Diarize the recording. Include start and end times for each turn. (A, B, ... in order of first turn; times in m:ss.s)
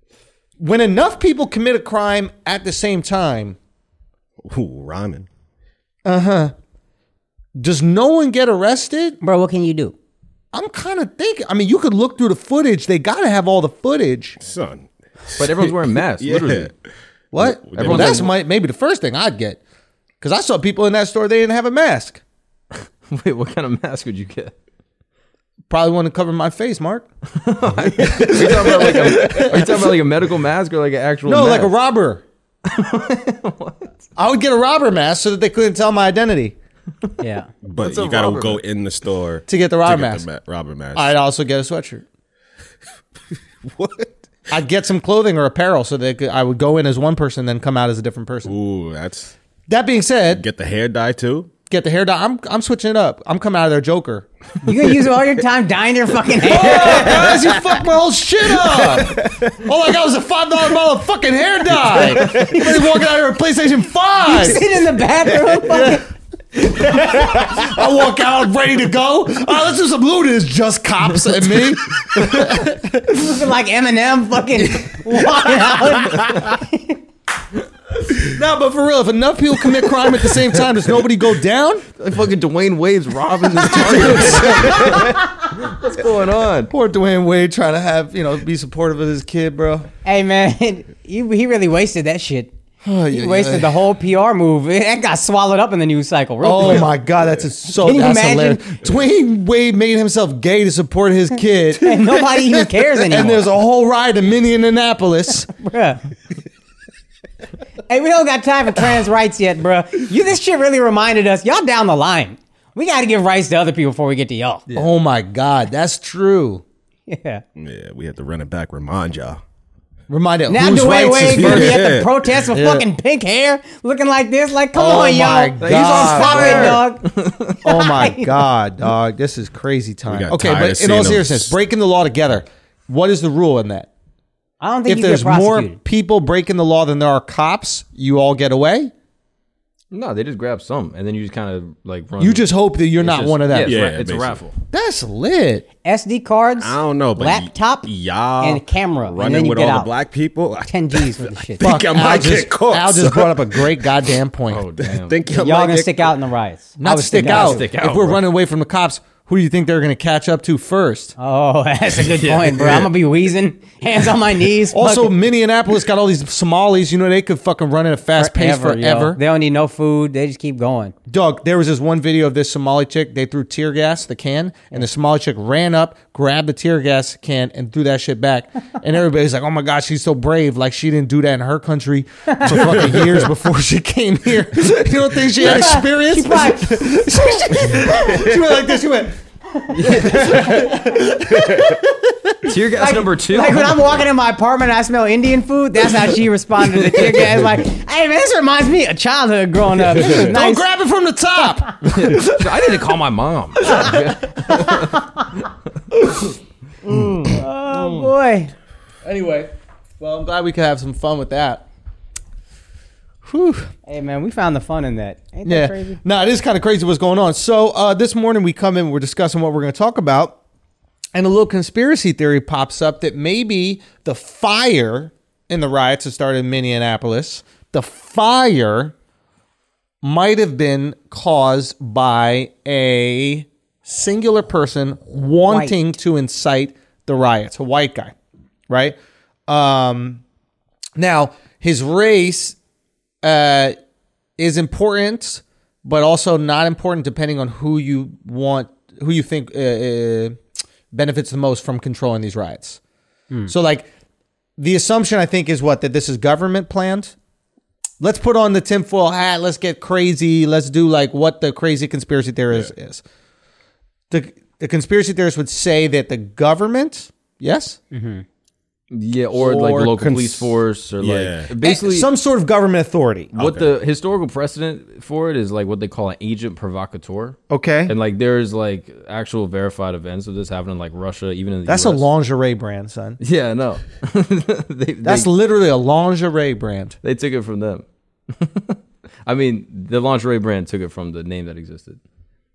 0:00.6-0:03.6 A
0:04.4-0:05.3 B
0:06.0-0:06.5 A
0:07.6-0:09.2 A
0:09.2-0:09.9 C
0:10.5-0:14.4 A
0:14.4-0:16.7 B
0:15.4-0:16.7 D
0:17.3-0:19.6 A
0:17.4-0:18.3 B
0:17.7-0:18.3 D
0:20.2-0:22.2 A
0:23.1-0:24.5 D
0:25.7-0:27.1 A
0:27.4-0:31.7 D
0:28.0-0:29.9 A
0:31.2-0:32.2 A
0:32.6-0:34.0 D
0:34.2-0:36.6 A
0:37.2-0:37.5 C
0:37.6-0:41.1 B
0:37.8-0:38.6 D
0:39.5-0:40.2 A
0:40.9-0:42.0 A
0:43.6-0:44.1 B
0:44.5-0:48.5 A
0:48.4-0:49.3 B
0:49.7-0:50.4 A
0:50.3-0:51.5 B
0:51.7-0:54.2 A
0:54.6-0:57.6 C
0:56.4-1:04.6 A
0:56.8-0:57.4 B
0:58.5-0:59.7 B
1:02.0-1:02.6 B
1:02.2-1:02.5 C
1:04.2-1:06.1 C
1:05.6-1:06.0 A
1:06.6-1:13.4 A
1:13.1-1:17.0 C
1:15.1-1:15.8 A
1:18.0-1:21.8 A
1:22.0-1:26.7 D
1:23.6-1:25.1 A
1:26.7-1:29.9 A
1:30.0-1:32.5 C
1:32.8-1:33.8 A
1:33.1-1:36.9 C
1:36.4-1:45.5 A
1:37.7-1:38.8 C
1:41.8-1:43.5 C
1:45.6-1:46.0 C
1:47.9-1:54.6 C
1:54.7-1:56.6 A
1:57.1-1:57.4 C
1:57.6-1:59.4 B
2:00.1-2:01.8 A
2:00.5-2:08.4 C
2:01.2-2:02.5 B
2:02.5-2:02.8 A
2:04.7-2:06.8 A
2:05.6-2:07.6 D
2:07.6-2:13.9 A
2:10.1-2:11.5 B
2:14.6-2:15.8 C
2:14.9-2:18.9 A
2:19.9-2:24.5 D
2:22.2-2:23.8 A
2:23.6-2:24.4 B
2:24.7-2:25.6 A
2:25.8-2:29.9 C
2:26.6-2:34.1 B
2:30.6-2:31.7 C
2:31.6-2:34.6 A
2:34.5-2:35.2 D
2:34.8-2:36.1 B
2:35.3-2:37.6 C
2:36.8-2:41.1 A
2:37.1-2:38.2 D
2:41.2-2:45.1 C
2:41.9-2:42.9 D
2:44.7-2:49.2 A
2:48.2-2:50.9 C
2:51.1-3:09.1 A
3:02.4-3:02.7 C
3:02.5-3:03.3 B
3:05.4-3:08.2 C
3:05.4-3:05.8 B
3:09.5-3:10.7 C
3:09.7-3:10.6 D
3:09.8-3:12.5 A
3:09.9-3:11.8 B
3:12.4-3:14.0 D
3:12.8-3:20.7 C
3:19.9-3:22.8 A
3:21.9-3:25.0 D
3:23.6-3:24.8 A
3:25.9-3:26.3 A
3:26.8-3:27.3 A
3:27.3-3:28.5 C
3:29.0-3:31.6 A
3:33.2-3:33.7 A
3:33.8-3:36.0 C
3:35.4-3:40.4 A
3:41.1-3:48.9 A
3:50.0-3:58.1 A
3:55.5-3:55.8 C
3:58.7-3:59.0 A
3:59.5-4:00.2 A
4:01.0-4:02.6 A
4:03.2-4:03.8 A
4:04.4-4:10.4 A
4:10.9-4:12.8 A
4:13.5-4:13.9 A
4:14.6-4:17.1 A
4:18.0-4:23.0 A
4:24.1-4:27.8 A
4:27.9-4:28.2 C
4:28.9-4:32.1 D
4:29.3-4:30.4 A
4:31.0-4:31.5 B
4:31.6-4:33.3 A
4:33.3-4:42.1 D
4:33.3-4:33.7 B
4:37.5-4:37.9 A
4:41.7-4:43.2 A
4:43.2-4:45.3 D
4:45.0-4:47.0 A
4:47.0-4:52.0 D